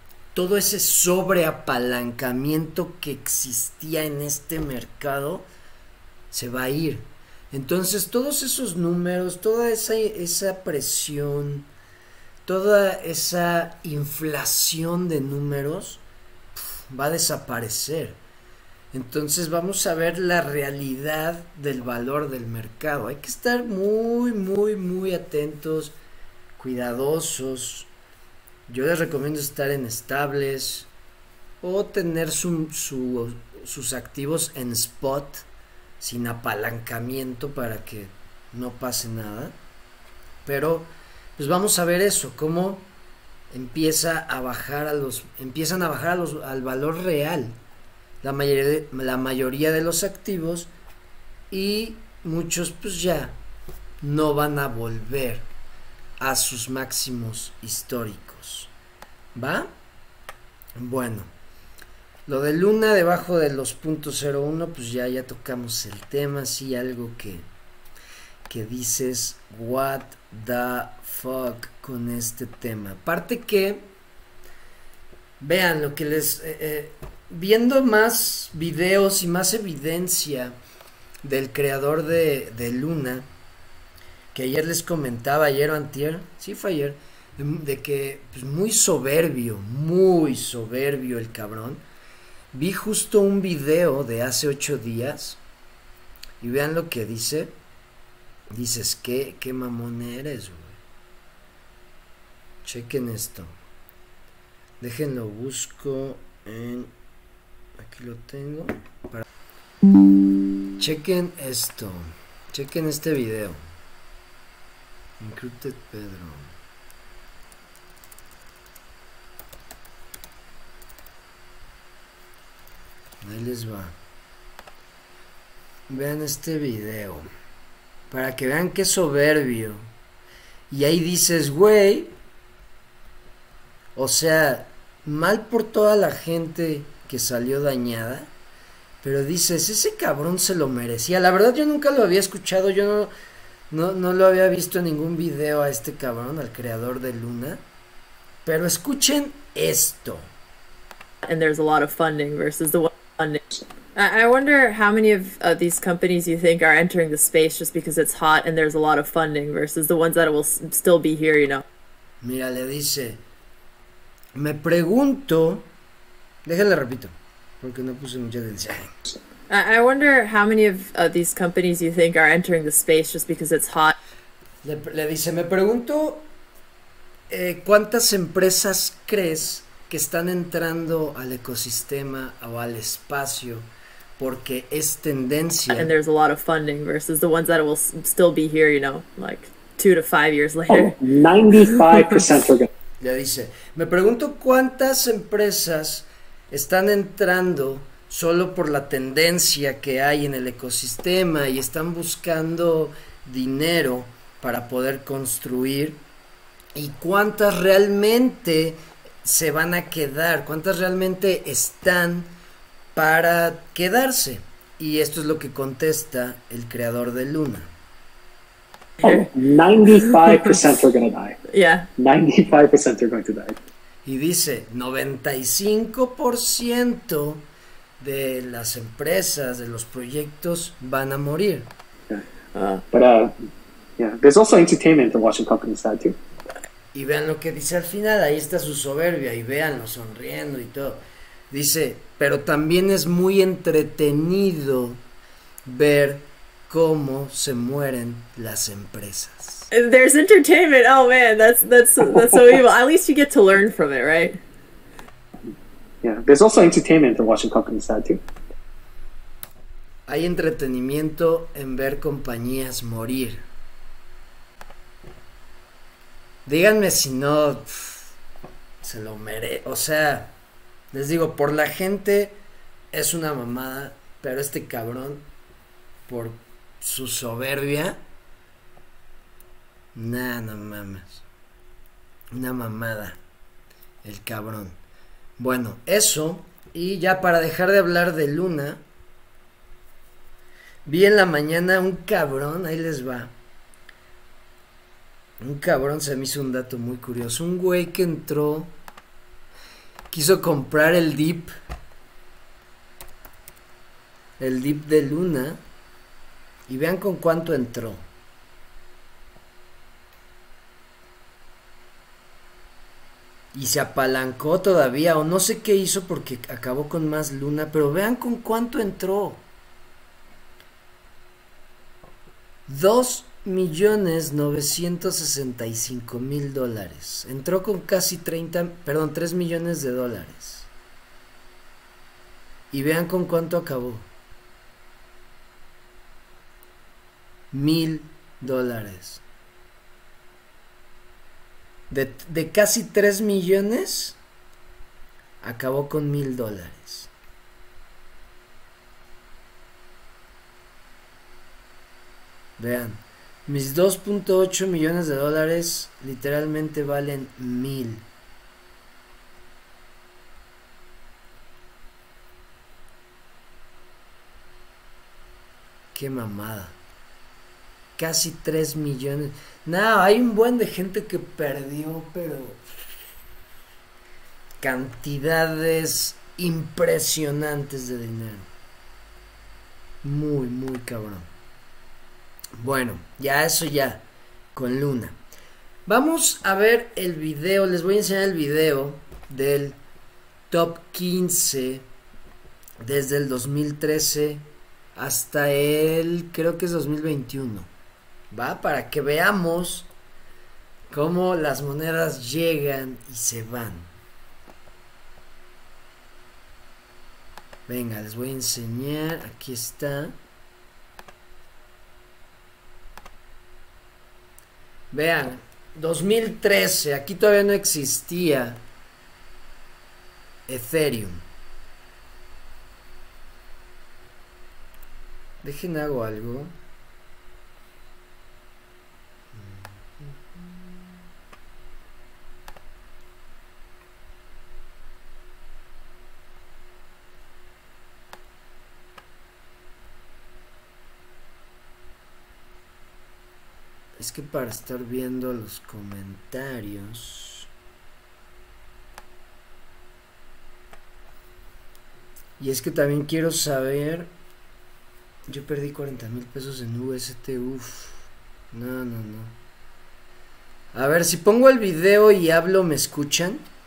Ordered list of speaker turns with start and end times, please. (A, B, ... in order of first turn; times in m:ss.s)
0:00.3-0:05.5 A
0:06.3-0:11.7 A
0:12.4-0:16.0 A
0:16.6-0:18.2 A
0:18.9-0:26.0 A
0:26.6-0:27.9 A
0:28.7-0:30.9 A
0:31.6-0:35.4 A
0:36.0-0:39.6 A
0:40.4-0:42.9 A
0:43.5-0:47.5 A
0:48.2-0:50.7 A
0:51.5-0:53.4 A
0:54.0-0:55.5 A
0:56.2-0:58.7 A
0:59.3-0:59.7 A
1:00.8-1:01.3 A
1:02.3-1:07.5 A
1:08.5-1:13.9 A
1:15.4-1:20.6 A
1:21.2-1:23.3 A
1:24.3-1:31.8 A
1:32.5-1:35.4 A
1:36.4-1:37.5 A
1:38.5-1:40.8 A
1:42.6-1:43.5 A
1:44.8-1:46.9 A
1:47.8-1:49.2 A
1:50.8-1:53.6 A
1:55.2-1:56.5 A
2:03.2-2:03.9 A
2:05.9-2:07.2 A
2:08.1-2:09.9 A
2:10.7-2:12.1 A
2:13.9-2:18.3 A
2:19.0-2:23.1 A
2:23.7-2:27.6 A
2:28.4-2:30.3 A
2:31.2-2:41.6 B
2:42.2-2:43.2 A
2:44.3-2:45.7 A
2:46.4-2:48.9 A
2:49.5-2:54.0 B
2:54.6-2:56.3 A
2:57.3-3:05.9 A
3:05.7-3:11.0 B
3:10.7-3:12.7 C
3:13.0-3:26.0 A
3:26.7-3:32.3 A
3:32.9-3:37.7 A
3:39.0-3:39.3 B
3:39.0-3:41.4 C
3:41.5-3:41.9 B
3:42.0-3:43.6 C
3:44.0-3:47.4 A
3:48.0-3:51.7 A
3:52.5-3:52.8 B
3:52.9-3:53.3 C
3:54.0-3:56.2 C
3:56.9-4:05.0 A
4:05.6-4:09.7 A
4:09.7-4:14.4 B
4:16.0-4:18.2 C
4:20.1-4:23.4 A
4:26.4-4:28.1 A
4:28.8-4:30.4 A
4:30.9-4:32.4 A
4:32.9-4:35.2 A
4:36.1-4:38.0 A
4:39.9-4:41.2 A
4:42.3-4:43.2 A
4:44.0-4:44.8 A
4:45.4-4:48.8 A
4:50.8-4:53.3 A
4:55.4-4:58.8 A
5:00.1-5:01.5 A
5:04.4-5:05.6 A
5:06.7-5:08.0 A
5:13.5-5:19.4 A
5:22.7-5:30.7 A
5:32.7-5:34.1 A
5:37.5-5:39.2 A
5:41.9-5:44.2 A
5:45.4-5:47.1 A
5:52.6-5:58.0 A
6:05.9-6:06.8 A
6:08.0-6:12.6 A
6:14.6-6:18.5 A
6:20.0-6:21.3 A
6:22.6-6:25.2 A
6:25.9-6:29.8 A
6:30.5-6:31.8 A
6:32.8-6:37.7 A
6:38.3-6:39.9 A
6:40.9-6:43.9 A
6:47.7-6:50.2 A
6:54.9-6:58.6 A
7:00.5-7:01.2 A
7:05.4-7:06.6 A
7:09.3-7:10.8 A
7:24.0-7:27.5 A
7:32.4-7:34.1 A
7:35.3-7:39.4 A
7:40.7-7:43.4 A